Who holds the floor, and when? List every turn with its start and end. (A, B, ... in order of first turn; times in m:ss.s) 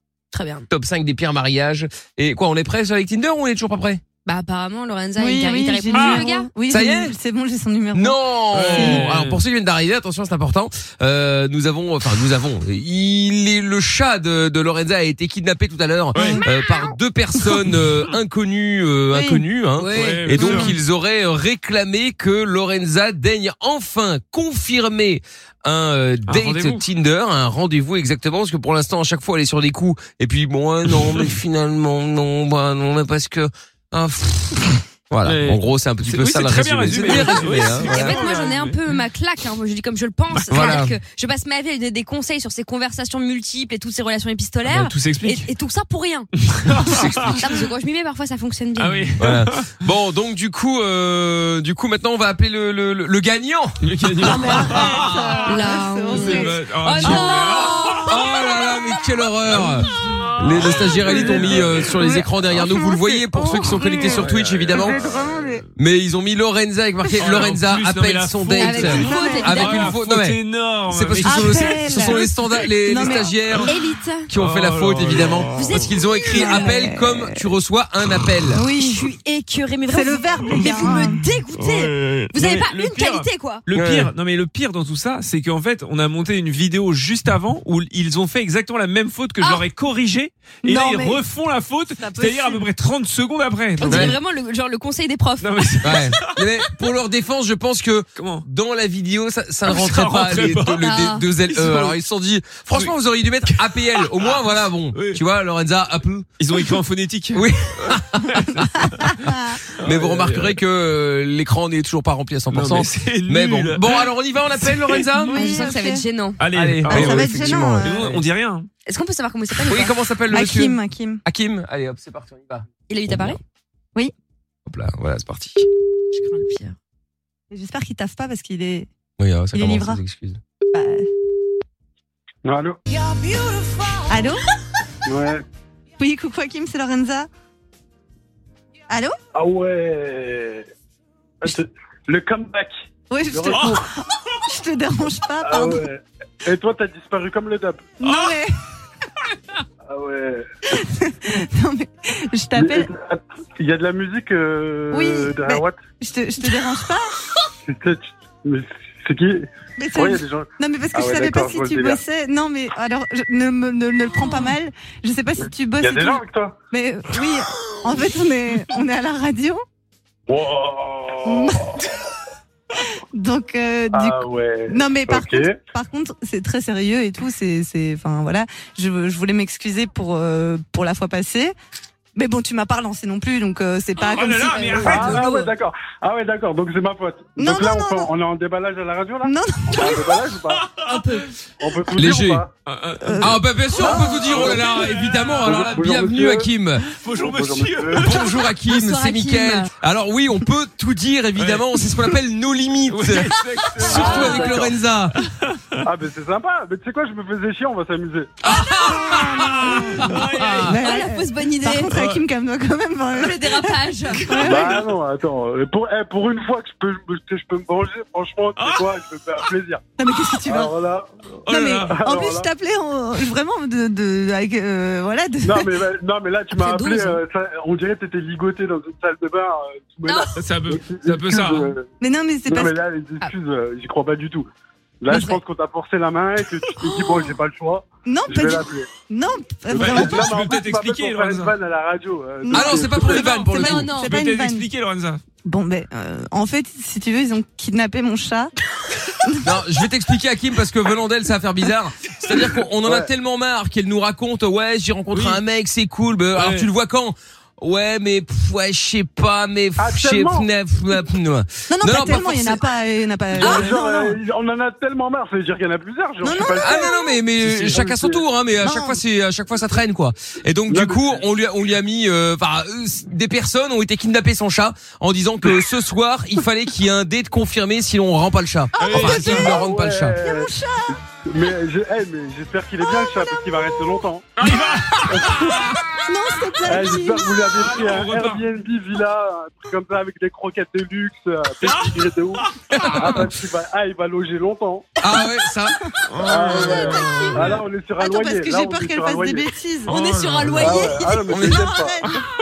0:00.3-0:00.7 A
0:00.7-0:04.0 B
0:04.2-0:06.5 A
0:05.2-0:08.2 C
0:05.9-0:06.2 D
0:06.7-0:07.1 B
0:07.9-0:38.2 B
0:08.5-0:09.4 D
0:08.7-0:09.0 C
0:16.1-0:16.4 D
0:19.1-0:19.4 C
0:19.8-0:20.7 A
0:19.9-0:20.7 D
0:26.3-0:26.8 D
0:35.2-0:38.8 D
0:37.1-0:46.3 A
0:40.3-0:40.8 D
0:40.5-0:40.9 B
0:44.6-0:45.5 D
0:46.5-0:47.4 D
0:46.9-0:47.3 B
0:47.3-0:49.1 A
0:48.8-0:49.6 D
0:49.2-0:55.4 B
0:53.8-0:55.3 D
0:54.2-0:56.6 C
0:55.4-0:58.2 A
0:56.1-0:58.1 D
0:57.0-0:57.3 B
0:58.0-1:05.0 B
1:00.4-1:01.9 D
1:01.1-1:04.2 C
1:04.2-1:04.8 D
1:04.7-1:05.6 C
1:05.8-1:13.7 B
1:07.2-1:12.2 D
1:08.6-1:09.9 A
1:08.8-1:09.6 C
1:11.2-1:12.3 C
1:12.8-1:13.3 C
1:13.7-1:14.3 A
1:14.3-1:18.6 B
1:14.4-1:15.7 D
1:15.5-1:16.7 A
1:16.3-1:17.3 C
1:18.5-1:19.0 C
1:18.7-1:23.6 A
1:19.9-1:21.2 C
1:21.6-1:34.2 D
1:23.7-1:24.1 B
1:30.6-1:31.2 C
1:32.0-1:32.7 C
1:33.8-1:35.7 A
1:33.9-1:34.1 B
1:35.4-1:36.3 D
1:35.8-1:46.3 B
1:38.2-1:38.4 D
1:39.7-1:40.9 D
1:40.8-1:41.2 A
1:41.5-1:41.9 D
1:46.4-1:49.1 D
1:47.3-1:48.8 B
1:49.8-1:50.6 D
1:49.8-1:55.4 B
1:52.5-1:54.1 D
1:55.2-1:56.0 C
1:55.3-1:56.4 A
1:56.4-1:58.7 D
1:56.5-1:58.2 B
1:56.9-1:58.0 C
1:58.8-1:59.9 A
1:59.6-2:03.4 B
2:00.3-2:01.2 C
2:02.9-2:03.4 A
2:04.6-2:05.6 B
2:06.1-2:06.8 A
2:07.5-2:08.9 C
2:09.2-2:10.4 B
2:09.5-2:10.0 C
2:10.7-2:11.1 C
2:12.4-2:12.8 E
2:14.1-2:14.4 C
2:15.0-2:15.4 E
2:16.0-2:17.3 C
2:18.9-2:19.2 C
2:19.3-2:20.7 E
2:21.4-2:23.8 E
2:23.1-2:25.8 C
2:23.5-2:23.8 D
2:25.4-2:27.9 E
2:28.0-2:28.5 C
2:29.9-2:30.5 E
2:30.8-2:32.9 C
2:32.5-2:35.8 E
2:34.9-2:37.1 C
2:37.6-2:42.0 E
2:39.8-2:49.6 C
2:45.4-2:46.5 E
2:50.3-2:51.8 E
2:51.2-2:51.6 C
2:53.1-3:01.5 C
2:53.9-2:55.6 E
3:02.2-3:05.5 C
3:04.0-3:05.2 D
3:04.8-3:10.6 E
3:07.4-3:08.1 C
3:09.2-3:10.1 C
3:11.6-3:12.5 E
3:12.0-3:12.4 B
3:12.7-3:13.2 D
3:13.0-3:13.4 C
3:13.2-3:16.8 B
3:13.8-3:15.7 D
3:13.8-3:14.6 E
3:15.4-3:16.5 E
3:17.0-3:18.2 D
3:17.1-3:18.1 E
3:18.0-3:25.1 B
3:18.7-3:19.7 A
3:21.4-3:21.6 D
3:22.9-3:24.6 D
3:23.9-3:24.5 A
3:23.9-3:24.7 E
3:25.5-3:25.8 D
3:25.8-3:28.4 E
3:28.4-3:30.7 B
3:28.6-3:30.7 D
3:28.9-3:34.8 C
3:30.7-3:32.0 A
3:31.9-3:32.2 D
3:33.1-3:34.5 A
3:34.4-3:39.8 E
3:38.6-3:38.9 D
3:40.0-3:40.7 C
3:40.4-3:41.2 E
3:41.5-3:41.9 D
3:41.5-3:45.7 C
3:41.8-3:42.5 E
3:45.4-3:51.9 E
3:46.5-3:47.2 A
3:50.4-3:51.7 D
3:52.0-3:52.7 C
3:52.5-3:54.5 E
3:55.0-3:58.9 E
3:55.1-3:55.4 A
3:58.0-4:00.2 C
3:59.7-4:03.3 E
3:59.7-4:01.5 D
4:02.4-4:04.7 C
4:02.5-4:03.9 B
4:03.2-4:04.1 A
4:03.3-4:05.2 D
4:05.4-4:08.5 C
4:09.2-4:09.5 C
4:09.4-4:22.6 B
4:12.8-4:13.1 E
4:15.1-4:15.4 D
4:16.4-4:16.7 D
4:19.8-4:20.5 E
4:21.7-4:24.2 C
4:23.4-4:27.0 E
4:26.2-4:27.0 C
4:26.6-4:40.2 B
4:27.4-4:27.8 D
4:27.7-4:28.2 E
4:28.6-4:29.0 C
4:30.7-4:31.2 E
4:38.8-4:39.5 D
4:39.0-4:40.5 E
4:40.2-4:41.0 C
4:41.2-4:44.3 E
4:44.4-4:45.6 D
4:45.1-4:45.7 E
4:46.0-4:47.4 C
4:46.6-4:54.9 E
4:47.5-4:48.4 D
4:51.6-4:51.9 D
4:52.8-4:53.2 D
4:55.0-4:55.8 B
4:56.1-4:57.6 D
4:56.2-4:59.5 E
4:56.8-4:57.3 C
4:58.0-4:59.9 C
4:59.9-5:00.8 D
4:59.9-5:01.3 A
5:00.6-5:02.0 E
5:00.8-5:02.1 C
5:01.3-5:01.6 B